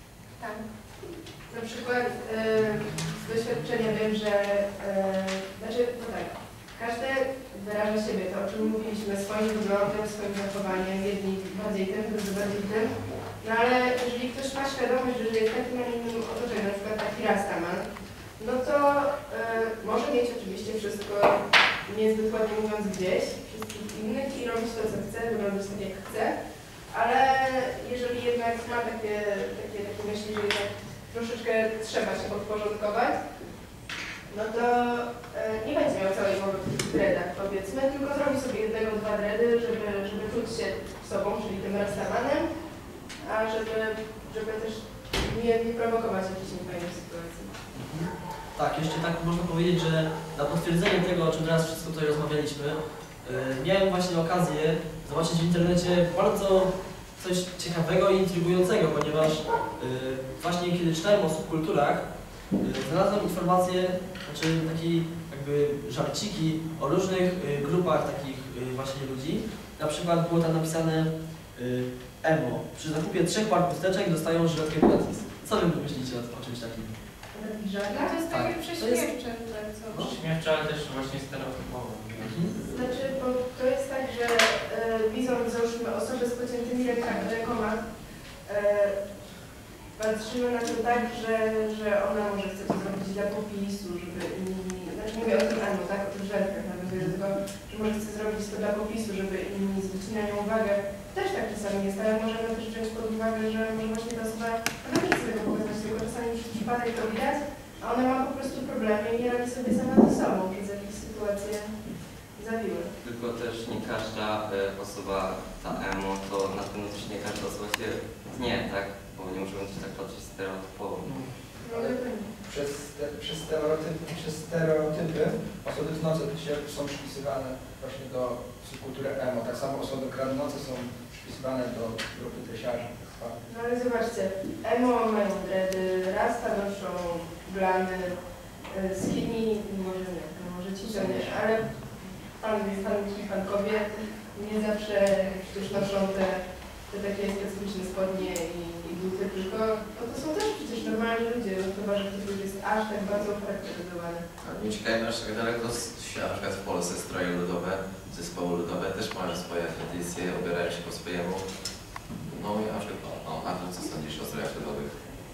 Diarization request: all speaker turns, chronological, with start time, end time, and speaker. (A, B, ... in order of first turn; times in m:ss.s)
0:01.5-0:17.8 A
0:18.4-0:26.3 A
0:26.9-0:33.2 A
0:34.3-0:42.4 A
0:43.2-0:47.5 A
0:47.7-1:02.1 B
1:02.6-1:17.0 B
1:17.3-1:18.2 A
1:17.9-1:20.1 C
1:18.3-1:19.1 B
1:19.9-1:20.2 B
1:20.1-1:22.1 D
1:22.2-1:22.5 B
1:22.6-1:27.8 A
1:28.4-1:29.0 A
1:30.0-1:51.7 A
1:52.4-1:52.9 A
1:53.0-2:01.0 E
2:01.0-2:01.4 D
2:01.6-2:02.3 A
2:01.6-2:13.4 F
2:13.4-2:18.2 A
2:18.7-2:34.2 A
2:20.9-2:21.4 F
2:34.4-2:41.4 G
2:42.3-2:44.9 G